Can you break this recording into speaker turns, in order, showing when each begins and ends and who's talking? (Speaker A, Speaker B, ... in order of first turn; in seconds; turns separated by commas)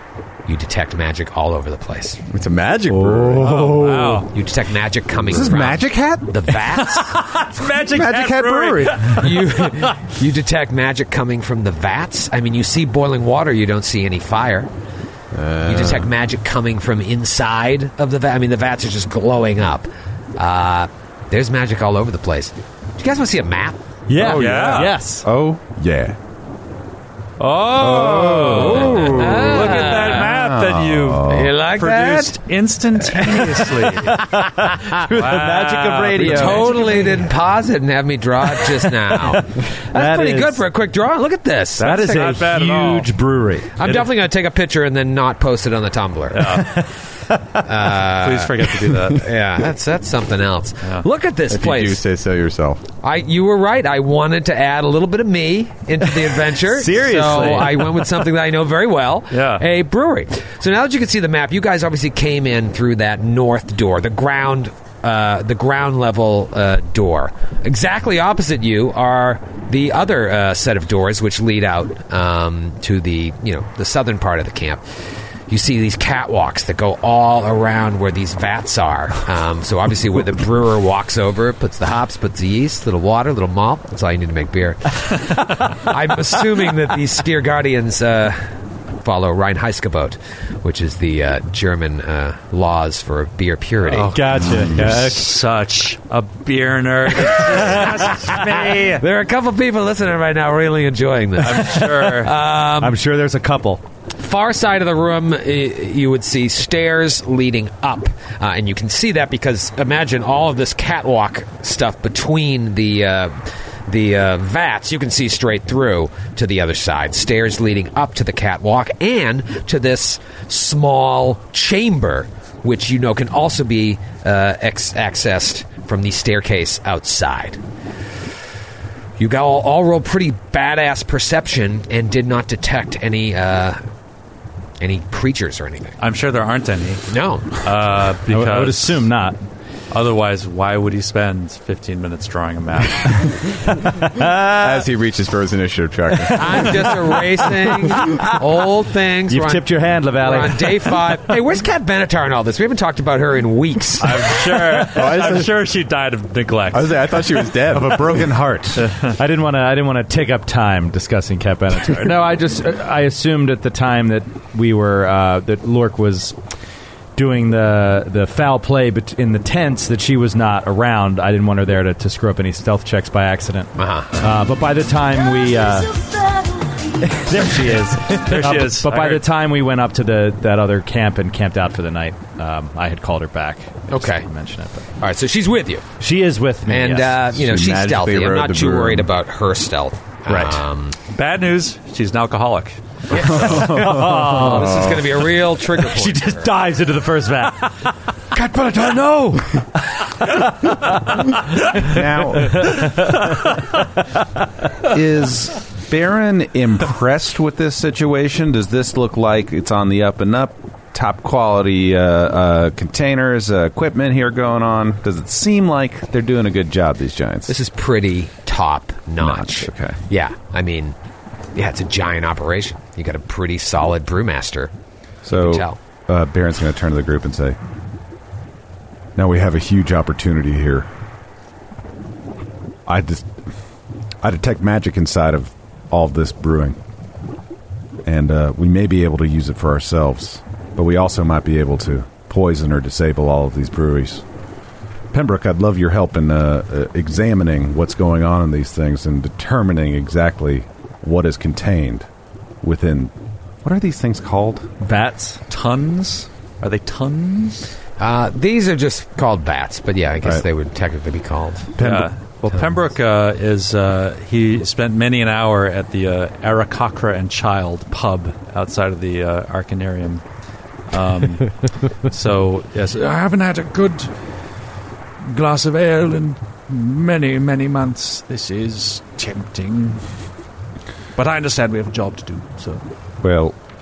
Speaker A: 0.5-2.2, Speaker B: 2.3-3.5, Speaker C: 2.9-4.2, Speaker D: 3.4-4.3, Speaker A: 4.3-7.2, Speaker C: 5.2-6.5, Speaker D: 6.7-9.9, Speaker C: 7.8-9.2, Speaker A: 9.1-14.7, Speaker B: 15.3-16.1, Speaker A: 15.6-23.8, Speaker E: 24.1-25.3, Speaker C: 24.1-26.2, Speaker D: 24.2-24.9, Speaker D: 27.4-34.2, Speaker C: 27.7-31.5, Speaker E: 28.6-29.2, Speaker A: 29.0-30.2, Speaker A: 31.3-32.4, Speaker A: 33.1-33.8, Speaker E: 34.1-37.3, Speaker D: 35.0-37.2, Speaker A: 36.2-41.9, Speaker E: 38.6-40.6, Speaker D: 41.8-43.1, Speaker E: 41.8-43.7, Speaker A: 43.8-46.6, Speaker D: 43.8-44.1, Speaker D: 46.3-46.9, Speaker A: 47.6-52.0, Speaker D: 48.1-49.3, Speaker B: 51.5-52.8, Speaker A: 53.0-74.8, Speaker E: 56.7-58.0, Speaker D: 59.3-59.6, Speaker A: 75.5-88.5, Speaker A: 89.0-94.2, Speaker D: 93.9-99.0, Speaker E: 94.1-95.3, Speaker A: 97.6-98.3, Speaker E: 97.7-98.3, Speaker A: 99.0-103.0, Speaker D: 101.4-102.3, Speaker E: 102.8-103.8, Speaker A: 104.2-127.6, Speaker A: 129.2-133.8, Speaker A: 134.8-136.0, Speaker D: 136.0-139.1, Speaker A: 137.1-137.6, Speaker E: 138.3-139.3, Speaker D: 139.9-143.4, Speaker E: 144.2-144.6, Speaker B: 144.6-146.7, Speaker A: 146.3-154.4, Speaker E: 147.9-148.3, Speaker E: 149.3-151.0, Speaker D: 154.0-157.4, Speaker B: 154.8-155.6, Speaker B: 156.7-158.3, Speaker C: 157.7-158.9, Speaker D: 158.8-159.1, Speaker E: 159.1-166.3, Speaker E: 167.1-176.0, Speaker A: 173.8-174.2, Speaker E: 177.0-184.8, Speaker D: 178.1-179.2, Speaker A: 183.9-184.3, Speaker A: 185.0-185.8, Speaker E: 186.0-187.2, Speaker A: 186.7-190.9, Speaker B: 187.3-189.1, Speaker E: 190.3-190.6, Speaker D: 191.1-192.8, Speaker A: 193.1-196.5, Speaker E: 193.3-195.1, Speaker C: 193.4-194.4, Speaker B: 194.6-195.0, Speaker E: 195.7-199.4, Speaker E: 200.3-201.2, Speaker C: 201.8-202.8, Speaker E: 202.5-203.2, Speaker C: 204.8-217.5, Speaker A: 217.5-221.0, Speaker C: 219.2-220.0, Speaker A: 221.5-224.7, Speaker C: 225.2-227.6, Speaker A: 225.3-225.8, Speaker C: 229.2-230.9, Speaker C: 232.8-233.4, Speaker C: 234.2-236.8, Speaker C: 238.0-244.2, Speaker C: 245.1-252.1, Speaker C: 252.6-254.7, Speaker E: 254.8-255.4, Speaker D: 255.5-257.7, Speaker A: 258.0-261.7, Speaker C: 261.8-262.7, Speaker D: 261.8-270.2, Speaker D: 270.9-272.9, Speaker F: 272.8-274.1, Speaker F: 275.2-280.0, Speaker F: 281.1-282.8, Speaker C: 283.2-283.6